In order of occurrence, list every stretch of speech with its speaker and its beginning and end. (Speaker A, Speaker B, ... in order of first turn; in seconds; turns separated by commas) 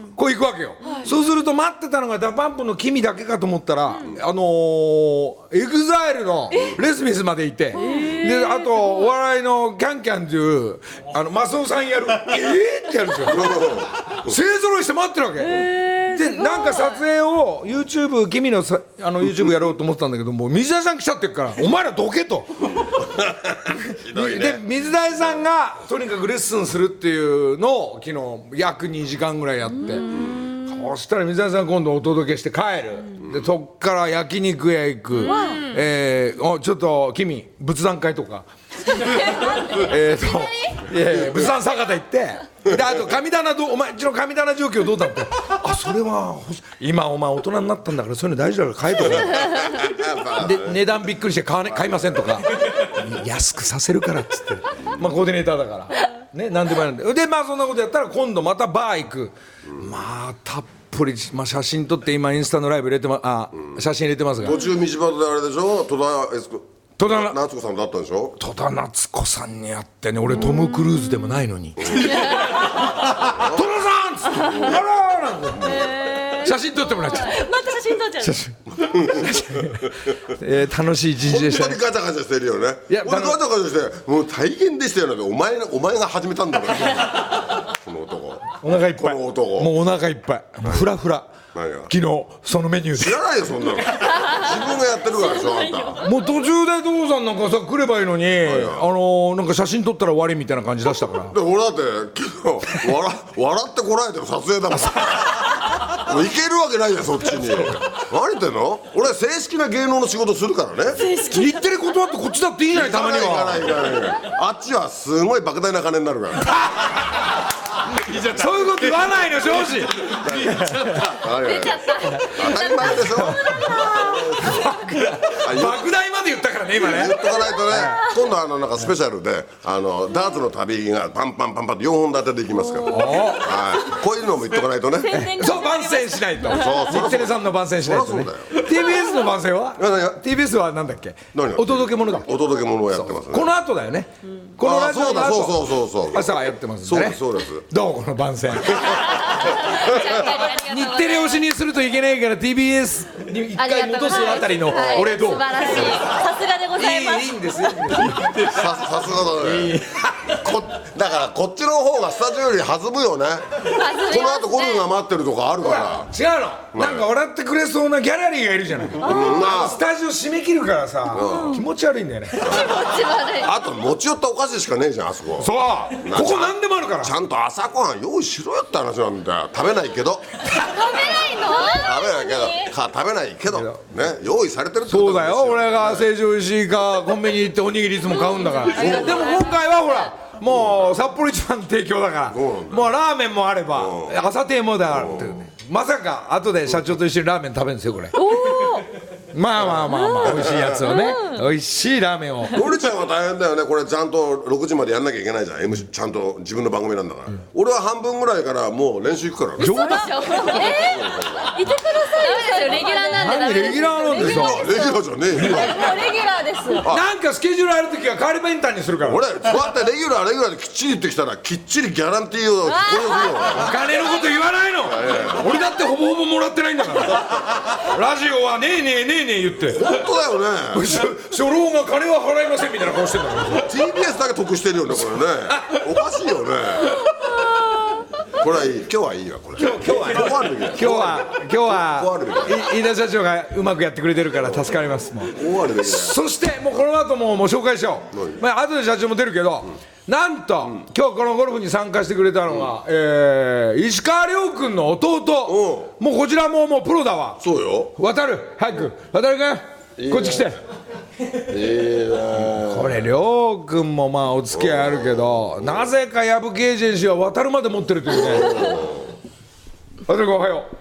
Speaker A: 0.1-22.6, Speaker B: 13.2-14.3, Speaker B: 23.0-25.3, Speaker A: 24.1-30.1, Speaker A: 30.6-38.5, Speaker C: 35.2-35.6, Speaker D: 35.2-35.6, Speaker A: 39.7-49.7, Speaker D: 40.2-40.6, Speaker B: 41.1-41.4, Speaker B: 42.7-43.0, Speaker B: 49.0-51.0, Speaker A: 50.4-64.6, Speaker B: 51.6-52.4, Speaker B: 64.4-68.4, Speaker A: 67.0-67.4, Speaker A: 68.4-75.7, Speaker B: 71.8-72.3, Speaker B: 73.2-73.7, Speaker B: 74.4-74.8, Speaker B: 75.6-75.9, Speaker D: 75.7-77.5, Speaker C: 76.0-76.3, Speaker A: 76.4-77.5, Speaker C: 77.3-78.2, Speaker A: 78.2-81.8, Speaker B: 78.8-79.8, Speaker B: 81.2-89.8, Speaker A: 82.9-83.4, Speaker A: 88.6-91.3, Speaker B: 91.5-91.9, Speaker A: 91.9-93.2, Speaker B: 93.0-96.0, Speaker D: 95.2-96.1, Speaker A: 96.0-101.3, Speaker B: 98.4-98.9, Speaker B: 101.3-111.1, Speaker A: 111.2-113.7, Speaker B: 112.7-116.6, Speaker B: 118.1-118.5, Speaker A: 118.3-121.2, Speaker B: 120.0-124.7, Speaker D: 121.2-124.2, Speaker A: 123.0-123.7, Speaker A: 124.3-128.0, Speaker B: 125.3-125.9, Speaker B: 126.8-135.3, Speaker A: 132.8-133.5, Speaker D: 135.0-136.7, Speaker A: 135.1-142.3, Speaker B: 136.4-138.8, Speaker B: 139.8-140.2, Speaker B: 141.3-143.5, Speaker A: 143.1-148.9, Speaker B: 144.6-147.7, Speaker B: 148.7-148.9, Speaker D: 148.9-151.4, Speaker B: 149.6-150.2, Speaker A: 150.3-156.0, Speaker D: 153.6-157.4, Speaker B: 154.7-156.1, Speaker A: 156.7-158.6, Speaker B: 158.2-166.1, Speaker A: 159.4-160.4, Speaker D: 163.6-164.9, Speaker A: 165.6-172.6, Speaker B: 166.7-167.1, Speaker B: 168.9-169.8, Speaker B: 171.1-171.6, Speaker B: 172.4-172.8, Speaker D: 172.4-173.5, Speaker B: 173.4-180.3, Speaker A: 175.4-177.1, Speaker D: 180.6-182.7, Speaker B: 181.6-186.1, Speaker A: 183.5-183.8, Speaker A: 184.9-198.2, Speaker D: 188.7-189.6, Speaker B: 188.7-189.3, Speaker B: 192.3-192.9, Speaker B: 193.7-194.2, Speaker B: 194.9-195.4, Speaker D: 198.2-198.8, Speaker C: 198.2-198.7, Speaker A: 199.3-202.6, Speaker B: 199.6-200.8, Speaker D: 200.1-201.3, Speaker B: 202.5-211.5, Speaker A: 209.6-210.6, Speaker D: 209.6-216.8, Speaker C: 212.2-213.3, Speaker A: 213.1-214.6, Speaker B: 214.1-216.0, Speaker A: 216.8-219.2, Speaker B: 219.0-223.7, Speaker D: 222.6-224.3, Speaker A: 223.6-227.2, Speaker B: 224.8-225.5, Speaker A: 227.9-229.9, Speaker B: 229.7-230.9, Speaker A: 230.7-233.7, Speaker B: 233.6-237.0, Speaker A: 235.5-235.8, Speaker B: 238.3-242.6, Speaker A: 239.6-257.4, Speaker B: 245.2-246.2, Speaker B: 248.1-248.4, Speaker B: 255.4-255.9, Speaker B: 257.4-257.9, Speaker A: 257.9-260.6, Speaker B: 260.0-260.6, Speaker B: 261.4-263.0, Speaker A: 262.6-268.6, Speaker B: 264.5-265.8, Speaker B: 268.1-269.1, Speaker A: 270.1-270.7